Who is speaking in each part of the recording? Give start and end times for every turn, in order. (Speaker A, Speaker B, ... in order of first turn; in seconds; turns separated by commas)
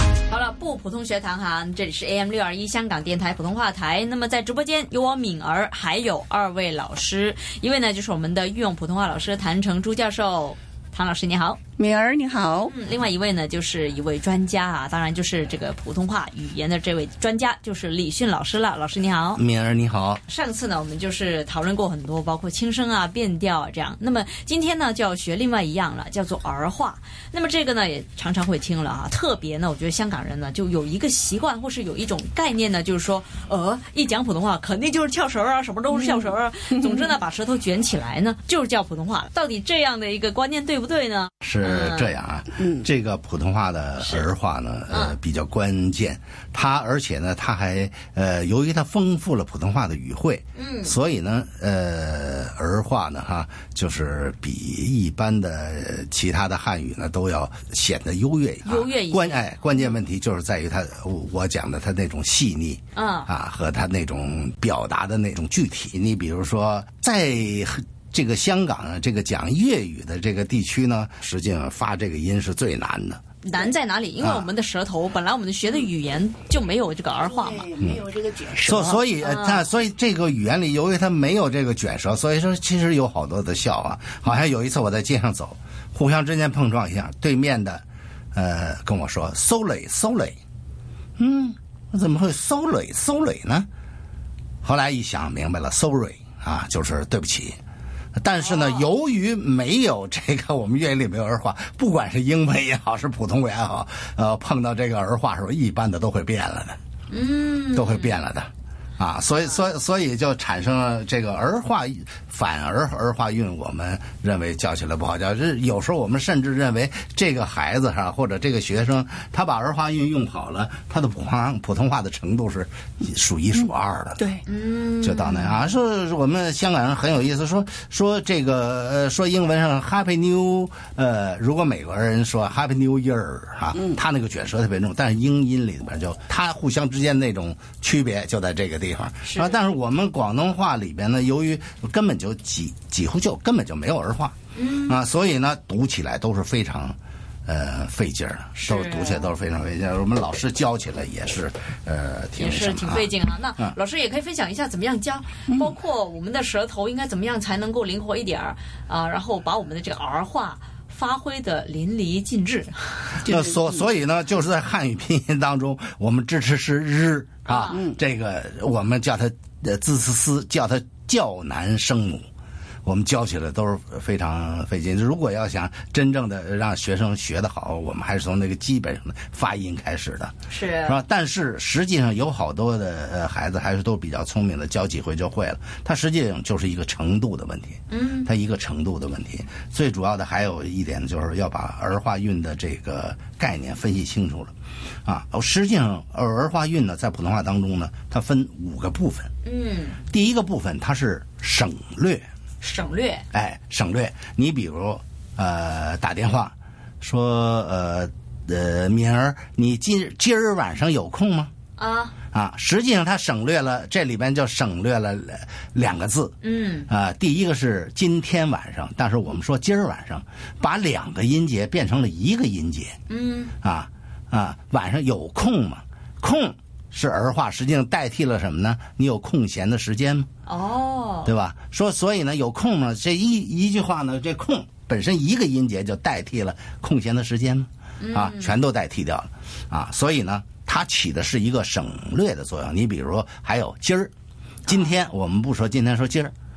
Speaker A: 0.3-11.6, Speaker B: 11.8-12.7, Speaker A: 12.7-19.4, Speaker C: 19.4-20.2, Speaker A: 20.2-42.1, Speaker B: 36.0-37.1, Speaker C: 41.4-73.2, Speaker B: 42.6-42.9, Speaker A: 44.0-44.2, Speaker A: 44.9-45.2, Speaker A: 50.5-50.9, Speaker A: 58.6-59.5, Speaker A: 63.0-63.3, Speaker A: 73.4-77.7, Speaker C: 74.2-74.5, Speaker B: 77.2-79.0, Speaker C: 78.6-90.4, Speaker A: 79.2-79.7, Speaker C: 91.2-93.7, Speaker C: 94.6-97.6, Speaker C: 98.2-106.8, Speaker A: 98.4-98.9, Speaker A: 107.1-108.1, Speaker C: 107.8-124.2, Speaker B: 123.6-124.4, Speaker A: 124.5-125.6, Speaker C: 125.0-153.8, Speaker A: 139.2-139.6, Speaker A: 144.6-145.0, Speaker A: 148.6-149.3, Speaker A: 152.4-163.3, Speaker C: 163.2-172.2, Speaker B: 163.2-163.8, Speaker A: 167.5-167.8, Speaker B: 167.7-168.0, Speaker C: 172.8-180.3, Speaker A: 180.5-181.0, Speaker C: 180.9-194.5, Speaker A: 187.9-188.3, Speaker C: 195.1-199.3, Speaker A: 199.4-200.0, Speaker C: 200.1-202.3, Speaker A: 202.6-203.2, Speaker C: 203.3-211.5, Speaker A: 211.8-212.1, Speaker C: 212.3-216.4, Speaker A: 216.4-216.9, Speaker C: 216.9-223.0, Speaker A: 223.1-223.5, Speaker C: 223.6-230.3, Speaker A: 230.5-231.3, Speaker C: 231.3-244.1, Speaker A: 238.0-238.5, Speaker C: 244.7-246.3